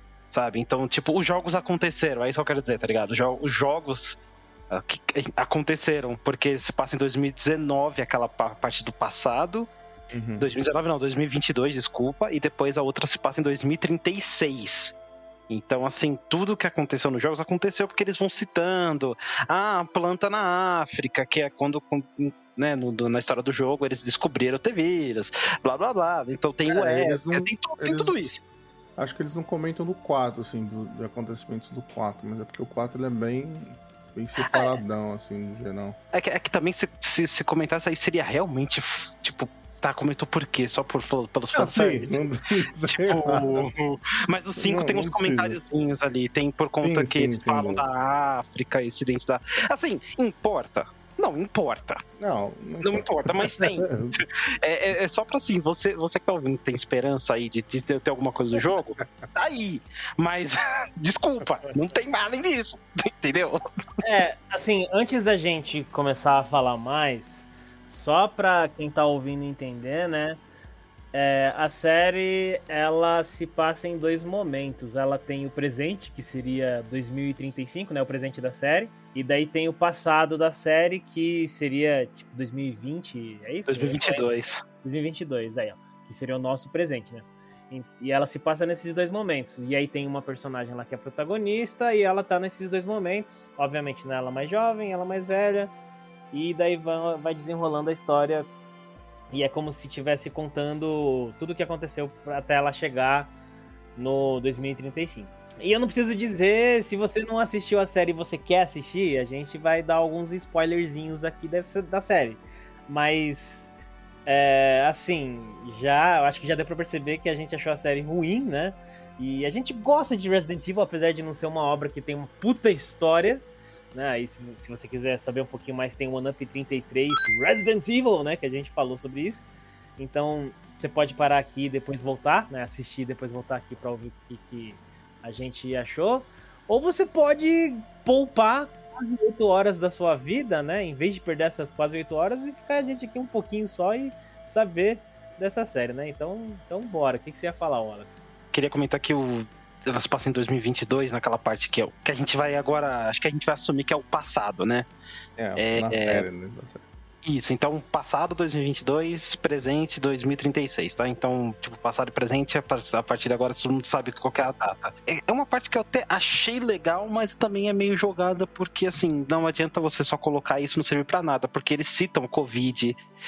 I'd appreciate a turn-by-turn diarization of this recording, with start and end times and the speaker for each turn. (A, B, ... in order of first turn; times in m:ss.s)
0:00.3-0:09.7 A
0:10.1-0:10.5 B
0:10.4-0:14.9 A
0:15.5-0:28.4 A
0:26.6-0:28.2 B
0:29.0-0:36.0 B
0:34.4-0:34.8 A
0:36.1-0:42.2 A
0:41.5-0:43.7 B
0:42.9-0:52.0 A
0:44.6-0:45.6 B
0:46.8-0:47.8 B
0:52.2-0:54.2 B
0:52.8-1:03.6 A
1:04.0-1:10.4 C
1:11.1-1:24.3 C
1:23.7-1:24.6 A
1:24.8-1:35.7 C
1:36.3-1:38.5 C
1:39.3-1:43.3 C
1:44.0-1:53.7 C
1:54.2-2:09.4 C
2:10.0-2:28.2 C
2:28.5-2:34.9 A
2:35.4-2:36.8 B
2:35.6-2:36.3 A
2:37.2-2:53.0 A